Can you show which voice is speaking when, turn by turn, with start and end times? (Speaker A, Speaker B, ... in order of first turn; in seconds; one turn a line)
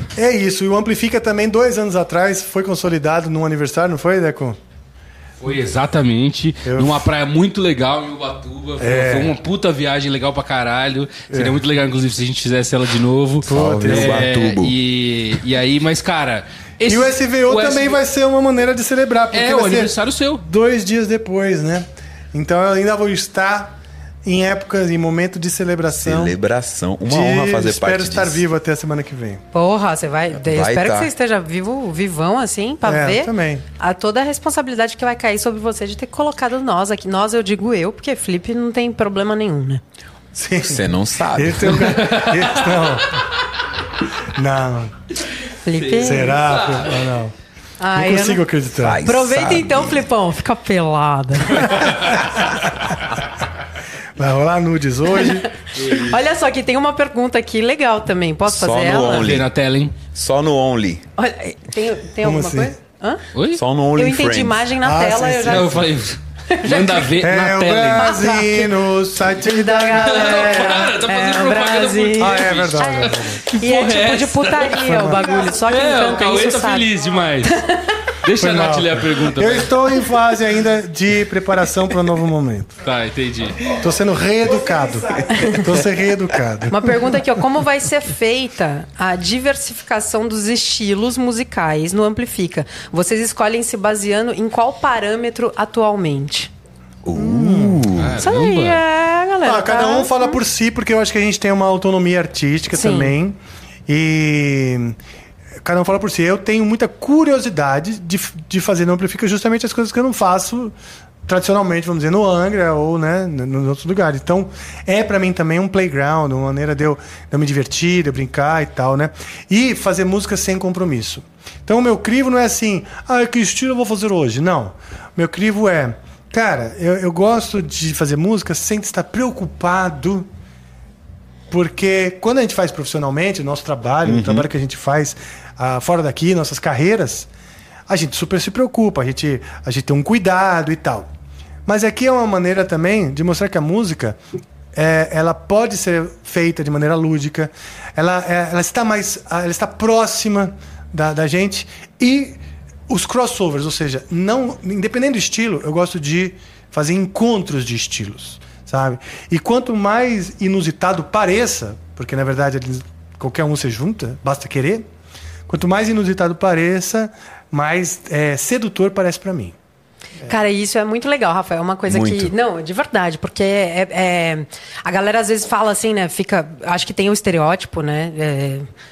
Speaker A: 0.1-4.6
Speaker B: 5.4-18.0
Speaker A: 6.6-7.1
Speaker A: 8.8-9.4
Speaker A: 11.3-11.6
Speaker A: 13.4-14.3
Speaker C: 13.5-14.7
Speaker A: 16.9-26.4
Speaker B: 19.3-20.4
Speaker C: 26.0-28.4
Speaker A: 27.1-29.4
Speaker D: 29.5-39.8
Speaker C: 30.3-31.1
Speaker A: 32.8-33.6
Speaker A: 40.3-43.3
Speaker C: 40.6-42.0
Speaker B: 41.8-42.7
Speaker A: 44.2-44.9
Speaker D: 45.6-46.4
Speaker B: 45.7-47.0
Speaker A: 46.0-47.3
Speaker D: 47.8-48.5
Speaker A: 47.9-49.0
Speaker C: 48.8-50.0
Speaker D: 49.0-52.1
Speaker A: 52.1-52.5
Speaker A: 54.1-55.5
Speaker D: 55.2-59.3
Speaker B: 55.8-56.1
Speaker C: 58.5-59.5
Speaker B: 58.9-59.9
Speaker C: 60.1-61.0
Speaker D: 61.2-63.2
Speaker A: 62.2-62.8
Speaker B: 63.3-63.6
Speaker C: 63.5-64.7
Speaker D: 63.9-65.9
Speaker A: 64.8-65.9
Speaker B: 65.4-68.2
Speaker D: 66.5-67.1
Speaker A: 67.2-71.0
Speaker D: 68.0-68.7
Speaker D: 69.4-76.9
Speaker B: 70.0-77.6
Speaker A: 72.2-73.5
Speaker A: 74.8-75.4
Speaker D: 77.5-77.9
Speaker B: 78.2-79.8
Speaker A: 78.3-82.8
Speaker B: 82.8-83.7
Speaker A: 83.7-87.3
Speaker D: 85.3-85.6
Speaker D: 86.7-96.5
Speaker C: 97.0-98.2
Speaker A: 97.1-97.9
Speaker B: 98.0-98.8
Speaker D: 98.2-100.4
Speaker A: 99.4-105.0
Speaker D: 102.7-103.2
Speaker A: 105.6-110.7
Speaker A: 111.2-130.3
Speaker A: 131.5-137.3
Speaker C: 134.1-134.4
Speaker A: 137.9-141.1
Speaker A: 141.7-144.2
Speaker A: 144.7-164.9
Speaker A: 165.5-169.5
Speaker D: 170.2-178.7
Speaker C: 171.9-172.3